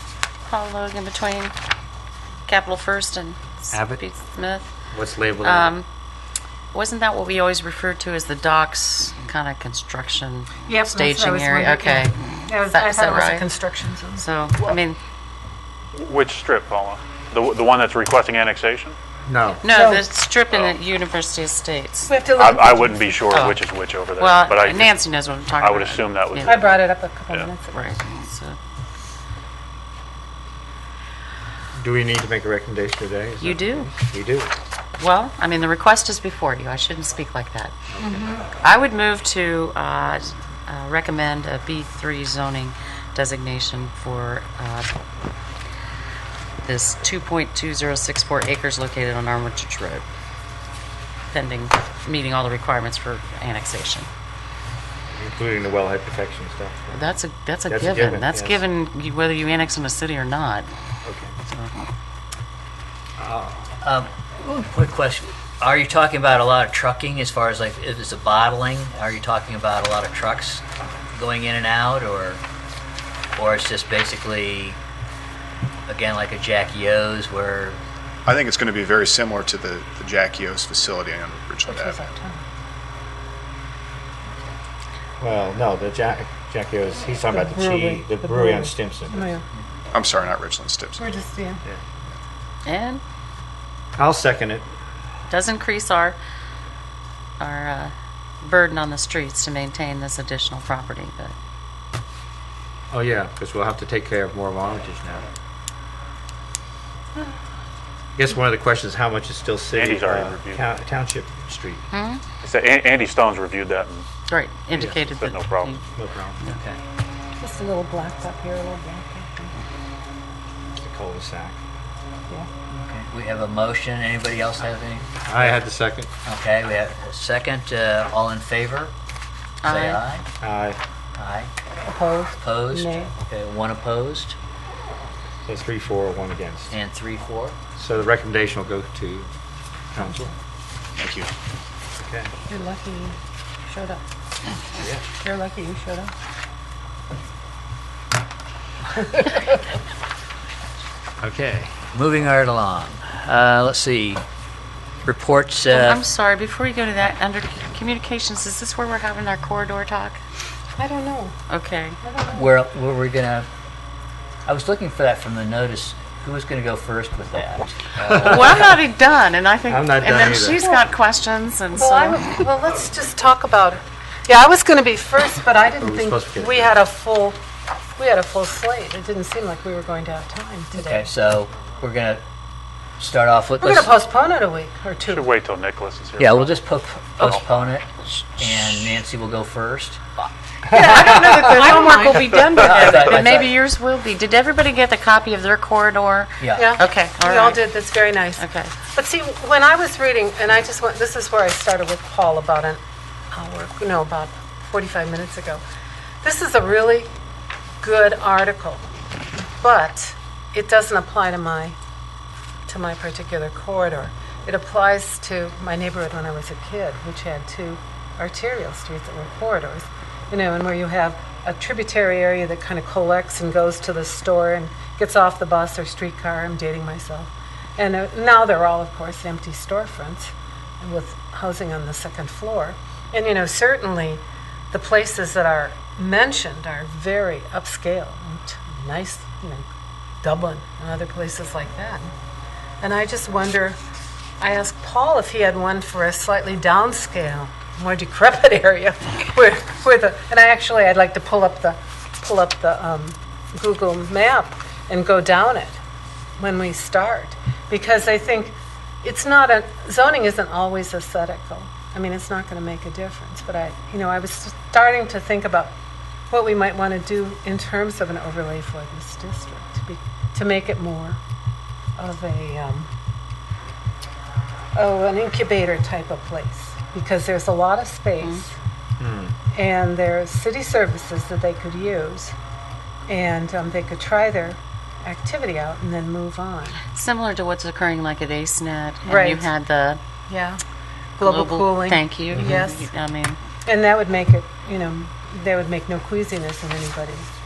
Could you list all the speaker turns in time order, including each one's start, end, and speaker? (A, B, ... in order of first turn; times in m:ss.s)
0:00.5-0:01.5 A
0:02.5-0:04.7 A
0:03.7-0:04.0 B
0:04.9-0:05.7 B
0:05.4-0:05.8 A
0:06.7-0:13.5 A
0:10.7-0:14.3 C
0:14.2-0:15.0 A
0:16.0-0:19.0 D
0:19.3-0:19.6 B
0:19.6-0:22.2 A
0:19.6-0:20.1 C
0:22.1-0:23.3 C
0:22.3-0:25.0 D
0:23.3-0:23.6 A
0:24.2-0:26.6 A
0:25.6-0:27.5 D
0:26.4-0:28.0 C
0:27.7-0:28.6 A
0:31.8-0:34.5 B
0:33.4-0:33.9 A
0:35.0-0:37.7 A
0:38.0-0:38.4 C
0:38.6-0:44.9 A
0:46.6-0:50.0 A
0:51.3-0:54.1 A
0:55.1-0:57.0 B
0:56.9-1:00.7 A
0:57.7-0:58.6 B
1:01.0-1:01.4 B
1:01.4-1:01.7 A
1:03.2-1:03.7 B
1:03.8-1:12.4 E
1:13.4-1:14.8 E
1:15.9-1:17.8 E
1:18.3-1:22.1 F
1:21.7-1:22.4 C
1:25.2-1:29.4 B
1:27.3-1:29.4 C
1:29.9-1:31.0 F
1:31.0-1:31.6 C
1:32.6-1:33.0 A
1:34.0-1:34.7 B
1:35.3-1:36.2 A
1:37.4-1:41.3 A
1:42.9-1:45.3 B
1:48.2-1:51.8 B
1:49.7-1:50.7 D
1:51.9-1:52.2 A
1:52.4-1:54.1 D
1:54.3-1:55.8 A
1:54.8-1:55.8 D
1:56.0-1:56.4 B
1:56.5-1:56.8 E
1:57.4-1:59.5 C
2:00.8-2:01.6 B
2:02.7-2:05.6 E
2:05.3-2:06.1 B
2:06.2-2:08.9 E
2:09.6-2:10.0 A
2:09.6-2:10.3 E
2:10.4-2:10.8 B
2:11.2-2:11.5 E
2:11.8-2:13.1 C
2:12.4-2:14.4 E
2:15.5-2:16.7 B
2:16.7-2:17.6 E
2:17.8-2:19.3 B
2:19.9-2:20.3 B
2:21.0-2:21.3 F
2:22.0-2:22.3 B
2:22.5-2:24.0 C
2:25.2-2:26.1 C
2:31.2-2:31.8 B
2:31.8-2:34.2 E
2:35.0-2:36.0 E
2:35.7-2:40.2 A
2:40.8-2:41.4 C
2:41.5-2:42.0 A
2:42.0-2:42.5 C
2:42.3-2:43.5 E
2:44.5-2:48.5 E
2:48.1-2:52.5 A
2:48.1-2:48.4 B
2:49.7-2:50.6 B
2:50.4-2:50.8 C
2:51.7-2:57.4 C
2:55.8-2:56.8 B
2:58.0-3:01.1 C
3:00.7-3:02.2 E
3:03.0-3:04.0 E
3:03.6-3:05.3 C
3:05.1-3:06.6 D
3:06.2-3:10.0 E
3:07.2-3:07.5 D
3:10.7-3:17.7 A
3:10.8-3:12.7 C
3:12.5-3:13.6 E
3:16.4-3:16.8 E
3:16.6-3:18.4 C
3:18.4-3:18.7 A
3:18.9-3:22.8 C
3:23.3-3:25.6 C
3:26.2-3:27.1 C
3:27.8-3:28.8 C
3:29.6-3:31.8 C
3:32.7-3:59.6 C
4:00.2-4:02.1 C
4:02.8-4:03.8 C
4:04.4-4:15.8 C
4:16.4-4:25.7 C
4:26.3-4:31.2 C
4:32.0-4:32.9 C
4:34.8-4:38.6 C
4:39.0-4:39.4 B
4:39.5-4:42.4 C
4:43.1-4:46.8 C
4:46.9-4:50.0 A
4:49.1-4:49.5 C
4:50.3-4:50.6 C
4:51.2-4:52.9 C
4:51.2-4:53.4 A
4:52.3-4:52.6 B
4:53.7-4:57.3 C